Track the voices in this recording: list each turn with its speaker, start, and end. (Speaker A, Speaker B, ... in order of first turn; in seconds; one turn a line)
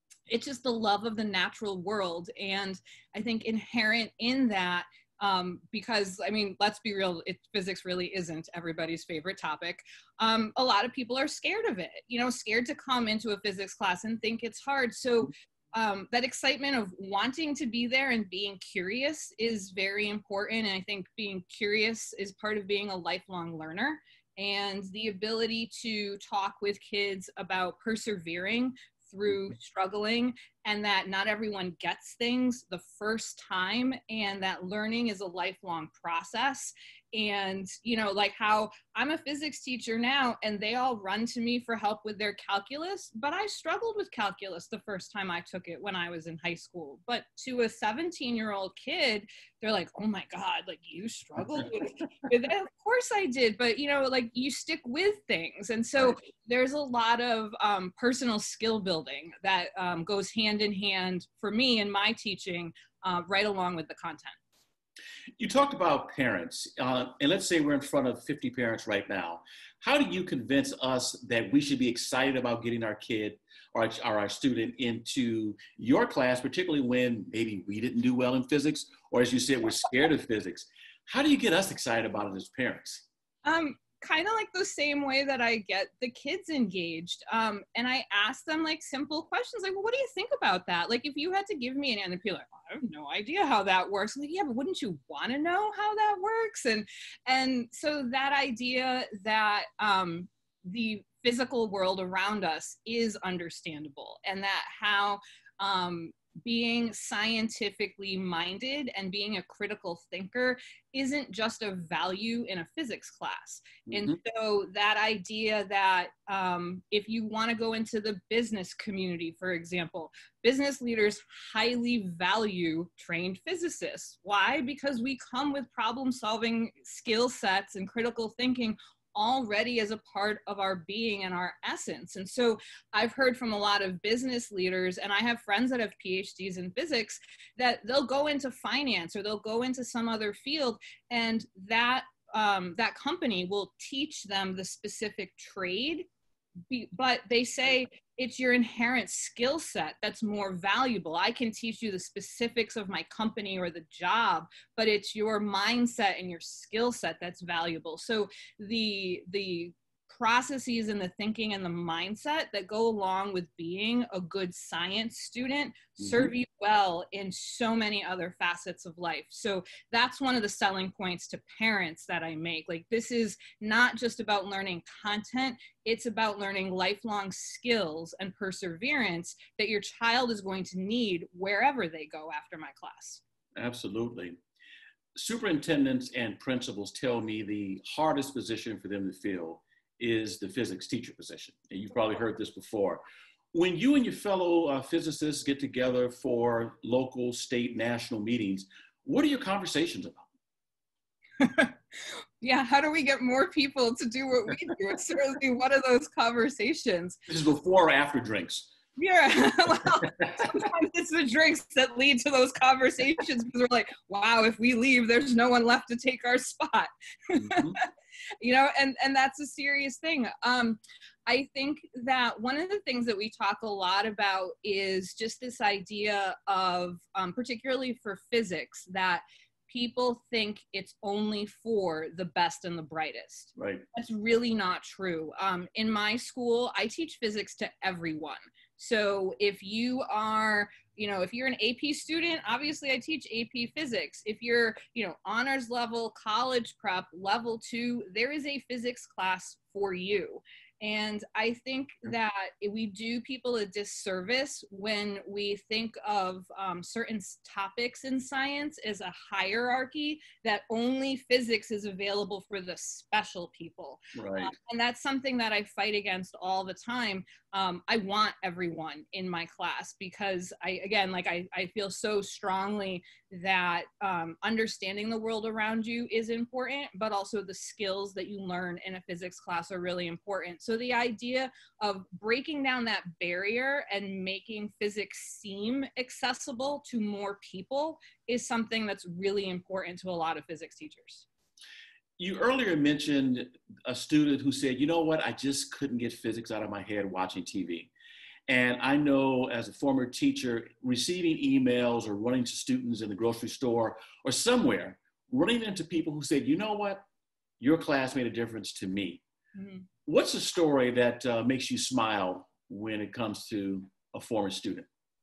Speaker A: 0.3-64.3
Speaker B: 65.4-83.0
Speaker A: 83.4-146.1
Speaker B: 113.9-114.2
Speaker A: 146.7-183.2
Speaker B: 166.0-166.3
Speaker B: 183.6-184.4
Speaker B: 185.1-193.0
Speaker B: 193.5-200.3
Speaker A: 201.4-201.7
Speaker A: 202.4-207.2
Speaker B: 207.3-208.7
Speaker A: 209.0-291.2
Speaker B: 217.3-217.8
Speaker B: 233.6-233.8
Speaker B: 264.1-264.5
Speaker B: 292.2-297.9
Speaker B: 298.5-307.0
Speaker B: 307.6-309.2
Speaker A: 309.5-309.8
Speaker B: 310.1-314.9